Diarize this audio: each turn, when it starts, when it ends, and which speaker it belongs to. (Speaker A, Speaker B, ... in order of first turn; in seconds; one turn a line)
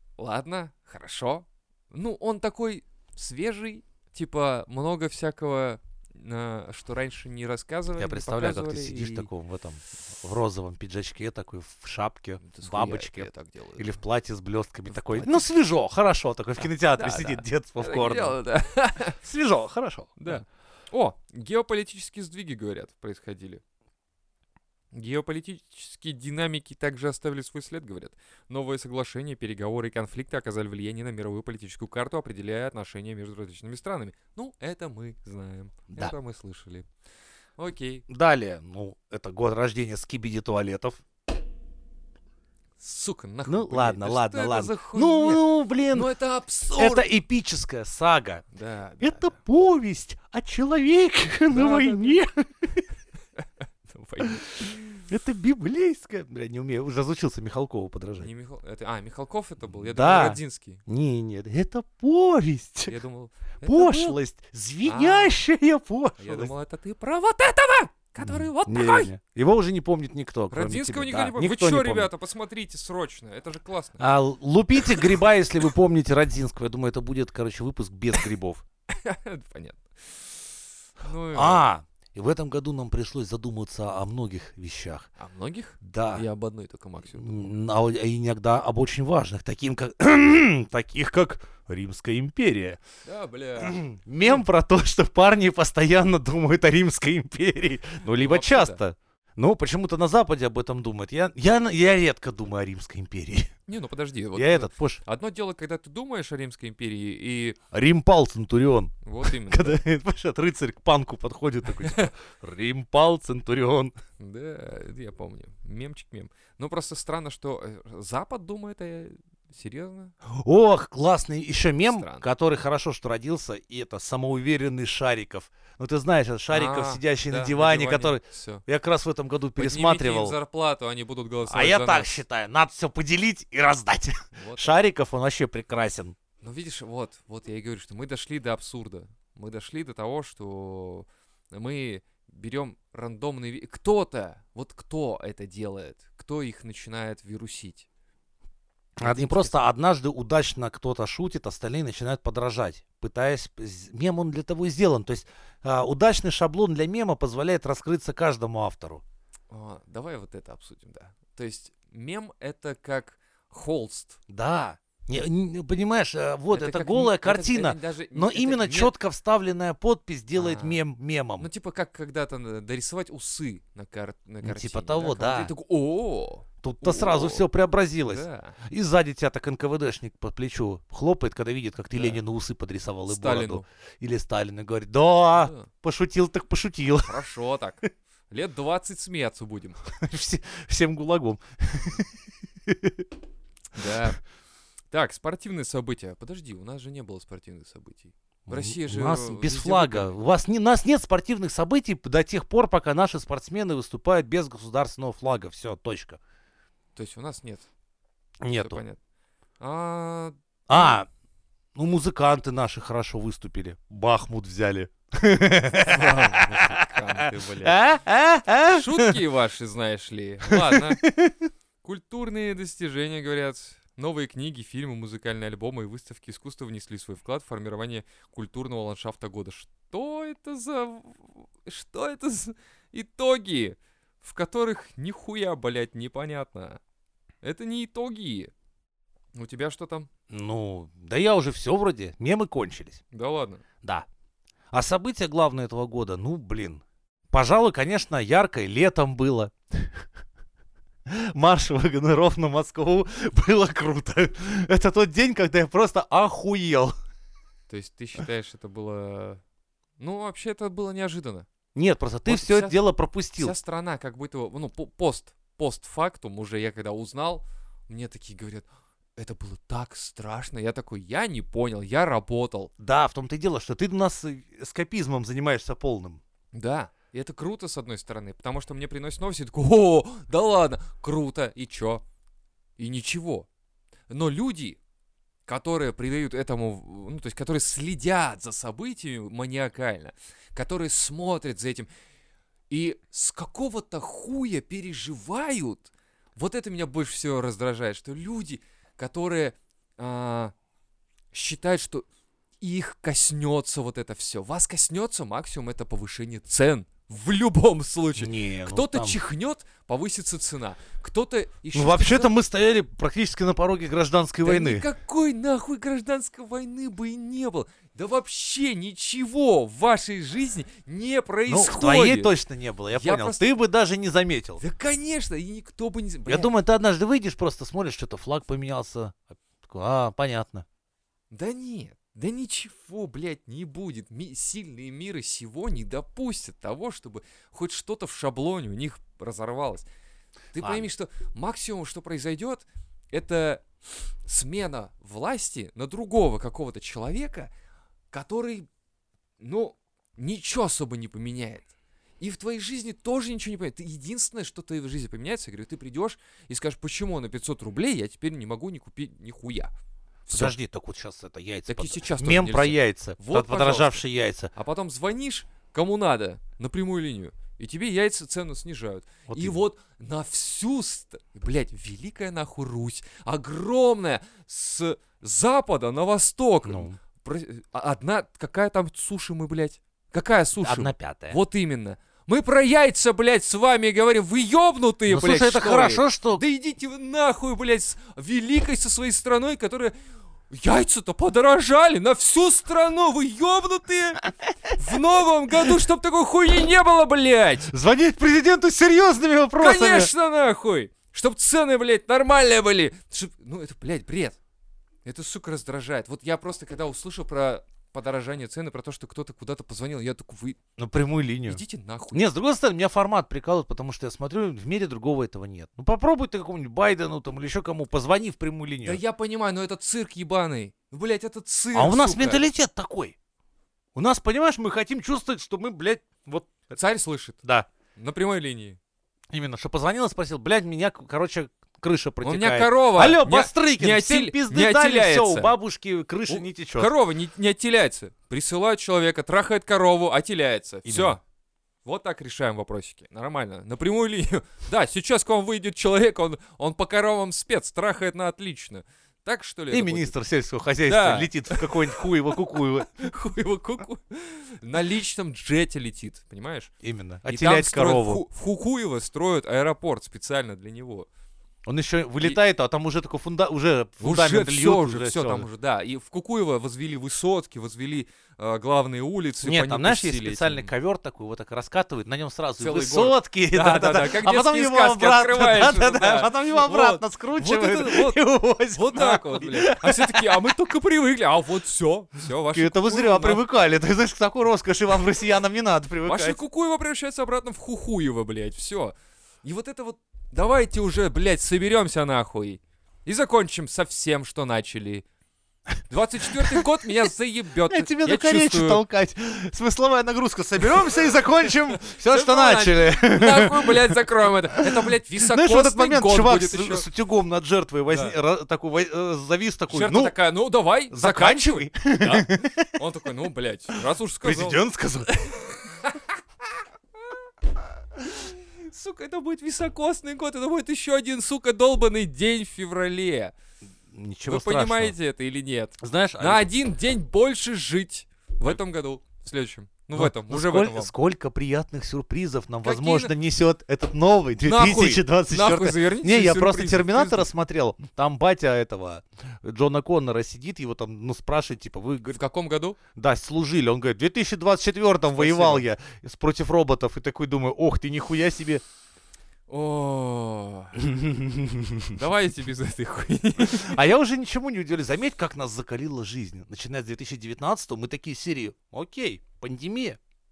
Speaker A: 0.2-9.3
Speaker B: 8.0-18.4
Speaker A: 12.4-14.0
Speaker A: 14.9-15.5
Speaker A: 16.6-19.2
Speaker B: 19.2-20.4
Speaker A: 20.2-23.6
Speaker A: 24.9-36.9
Speaker A: 37.6-38.0
Speaker B: 38.1-41.0
Speaker A: 42.8-47.1
Speaker B: 43.5-46.1
Speaker B: 46.8-48.4
Speaker A: 48.5-49.3
Speaker B: 49.0-52.8
Speaker A: 51.5-52.2
Speaker A: 53.4-55.1
Speaker B: 54.2-58.3
Speaker A: 58.2-60.8
Speaker B: 59.7-62.9
Speaker A: 62.9-64.2
Speaker B: 63.6-66.5
Speaker A: 64.8-65.4
Speaker A: 66.2-69.1
Speaker B: 68.2-72.1
Speaker A: 70.5-74.0
Speaker B: 74.0-78.6
Speaker A: 78.9-80.4
Speaker A: 81.0-81.7
Speaker B: 81.3-85.1
Speaker A: 85.2-87.5
Speaker B: 85.8-86.2
Speaker B: 87.1-92.8
Speaker A: 93.0-94.4
Speaker B: 93.6-103.5
Speaker A: 98.0-98.8
Speaker A: 103.7-107.6
Speaker B: 104.3-105.0
Speaker B: 107.7-113.9
Speaker A: 109.0-109.8
Speaker A: 111.8-112.1
Speaker A: 114.2-120.1
Speaker B: 120.2-130.4
Speaker A: 121.9-122.2
Speaker A: 126.5-128.6
Speaker A: 129.6-132.2
Speaker B: 131.5-136.2
Speaker A: 134.3-134.8
Speaker A: 136.4-147.9
Speaker B: 149.0-159.0
Speaker A: 149.0-149.5
Speaker A: 159.5-164.2
Speaker B: 164.3-171.5
Speaker A: 166.5-168.9
Speaker A: 170.3-170.8
Speaker A: 171.4-177.4
Speaker B: 174.4-175.5
Speaker B: 176.6-187.2
Speaker A: 178.1-178.6
Speaker A: 181.9-182.2
Speaker A: 183.1-183.7
Speaker A: 185.3-185.7
Speaker A: 187.0-189.8
Speaker B: 189.9-193.1
Speaker A: 193.7-194.2
Speaker A: 194.9-200.2
Speaker B: 198.5-206.2
Speaker A: 206.9-207.7
Speaker B: 208.4-208.8
Speaker A: 208.5-209.0
Speaker A: 209.6-211.0
Speaker B: 210.7-211.1
Speaker B: 211.7-219.2
Speaker A: 215.8-217.8
Speaker A: 218.7-221.0
Speaker B: 220.5-221.5
Speaker A: 221.8-236.8
Speaker A: 237.4-238.5
Speaker A: 239.3-240.1
Speaker B: 240.3-243.0
Speaker A: 243.1-243.6
Speaker B: 244.7-250.1
Speaker B: 251.1-256.9
Speaker A: 257.7-259.4
Speaker A: 260.0-261.5
Speaker B: 261.7-263.5
Speaker A: 262.2-262.8
Speaker A: 263.4-272.7
Speaker B: 272.8-276.2
Speaker A: 276.5-282.0
Speaker A: 282.8-283.5
Speaker A: 284.1-284.8
Speaker A: 285.4-291.9
Speaker A: 292.7-300.5
Speaker A: 301.3-302.1
Speaker A: 302.6-312.3
Speaker B: 308.1-309.2
Speaker B: 311.7-314.8
Speaker A: 314.4-322.4
Speaker B: 321.5-324.6
Speaker A: 322.9-323.5
Speaker A: 324.6-326.5
Speaker B: 326.3-330.6
Speaker A: 331.3-339.9
Speaker A: 340.5-343.7
Speaker B: 340.6-340.9
Speaker A: 344.2-347.5
Speaker A: 348.1-348.7
Speaker A: 349.4-359.7
Speaker A: 360.2-360.5
Speaker B: 360.3-364.5
Speaker A: 361.7-389.9
Speaker B: 369.3-369.6
Speaker B: 376.6-377.0
Speaker B: 380.6-381.4
Speaker B: 385.1-386.4
Speaker A: 390.5-397.7
Speaker B: 397.7-400.1
Speaker A: 399.6-404.4
Speaker A: 405.0-410.6
Speaker B: 410.8-411.6
Speaker A: 411.4-412.2
Speaker B: 412.1-419.0
Speaker A: 418.8-422.4
Speaker B: 421.7-423.1
Speaker B: 423.9-426.7
Speaker A: 426.7-427.4
Speaker A: 427.9-428.8
Speaker B: 429.3-436.9
Speaker A: 432.2-435.5
Speaker A: 436.3-441.2
Speaker B: 440.9-441.1
Speaker A: 441.8-450.1
Speaker B: 449.7-452.9
Speaker A: 450.9-456.7
Speaker B: 456.8-458.2
Speaker A: 457.3-461.1
Speaker B: 461.6-465.4
Speaker A: 464.0-470.7
Speaker B: 469.4-480.5
Speaker A: 472.6-478.2
Speaker A: 478.7-483.4
Speaker B: 482.5-486.4
Speaker A: 486.0-495.0
Speaker A: 495.9-498.8
Speaker B: 496.3-497.1
Speaker B: 497.7-510.1
Speaker A: 501.9-506.9
Speaker A: 507.9-508.1
Speaker A: 509.7-516.1
Speaker B: 510.9-512.8
Speaker B: 514.2-515.1
Speaker A: 518.0-523.3
Speaker B: 523.9-524.9
Speaker A: 524.3-530.9
Speaker B: 525.8-526.5
Speaker B: 529.9-542.2
Speaker A: 532.6-533.1
Speaker A: 534.4-537.3
Speaker A: 542.1-542.8
Speaker B: 542.9-548.6
Speaker A: 545.1-545.7
Speaker A: 549.5-550.9
Speaker B: 550.8-552.0
Speaker A: 551.9-553.8
Speaker B: 553.4-560.0